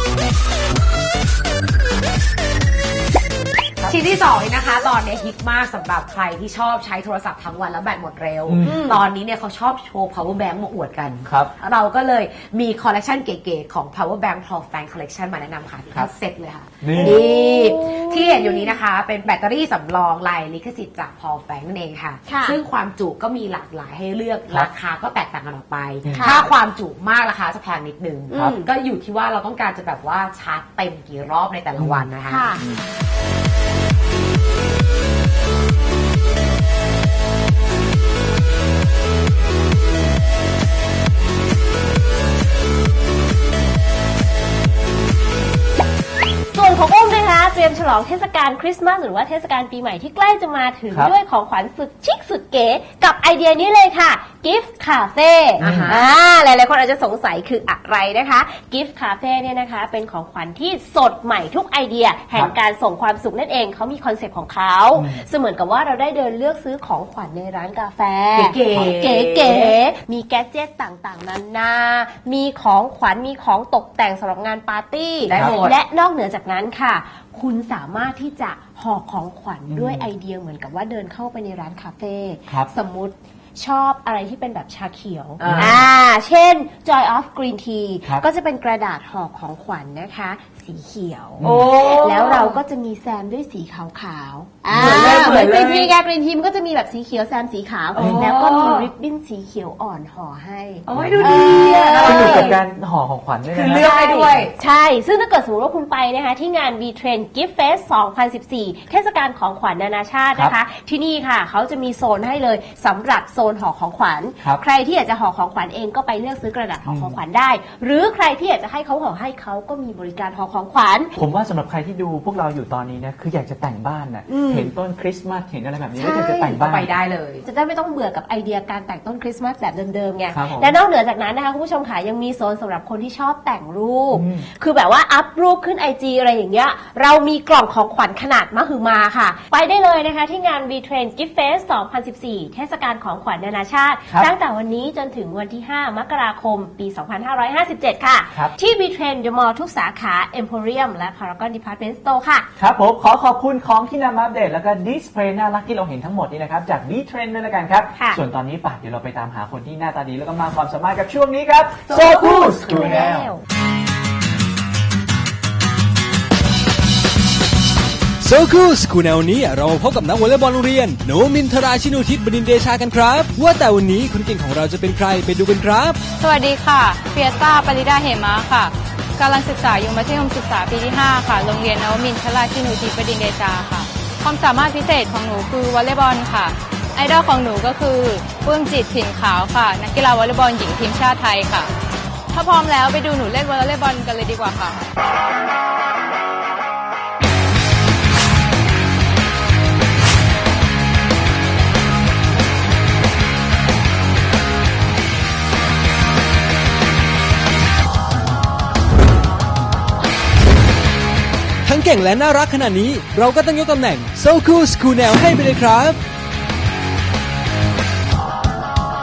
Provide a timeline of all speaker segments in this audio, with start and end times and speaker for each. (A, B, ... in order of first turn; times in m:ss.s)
0:03.9-0:32.5 A
0:08.4-0:08.8 B
0:08.6-0:09.0 C
0:11.2-0:11.5 B
0:16.8-0:17.2 B
0:17.0-0:18.7 C
0:22.2-0:22.6 C
0:26.0-0:26.3 B
0:26.1-0:26.4 C
0:28.3-0:28.7 C
0:31.8-0:32.1 B
0:32.3-0:32.6 C
0:46.5-1:42.6 C
0:55.6-0:56.1 A
0:55.6-0:56.0 B
1:04.9-1:05.2 B
1:08.3-1:09.8 A
1:15.2-1:15.8 A
1:19.7-1:20.1 B
1:25.4-1:25.8 B
1:25.4-1:25.8 A
1:31.4-1:31.7 B
1:31.4-1:32.6 A
1:34.7-1:35.6 B
1:34.7-1:35.9 A
1:37.9-1:38.9 A
1:37.9-1:38.3 B
1:40.8-1:42.6 A
1:40.9-1:43.9 B
1:43.5-1:44.5 A
1:43.7-2:01.1 C
1:56.8-1:57.2 B
2:01.2-2:06.9 B
2:04.3-2:04.7 C
2:06.0-2:06.5 C
2:06.2-2:07.4 A
2:07.4-2:32.5 C
2:10.3-2:10.8 B
2:14.1-2:14.4 B
2:32.6-2:43.3 B
2:41.9-2:43.4 C
2:48.2-2:56.0 D
2:56.2-3:11.7 E
3:12.3-3:14.8 E
3:31.6-3:36.0 D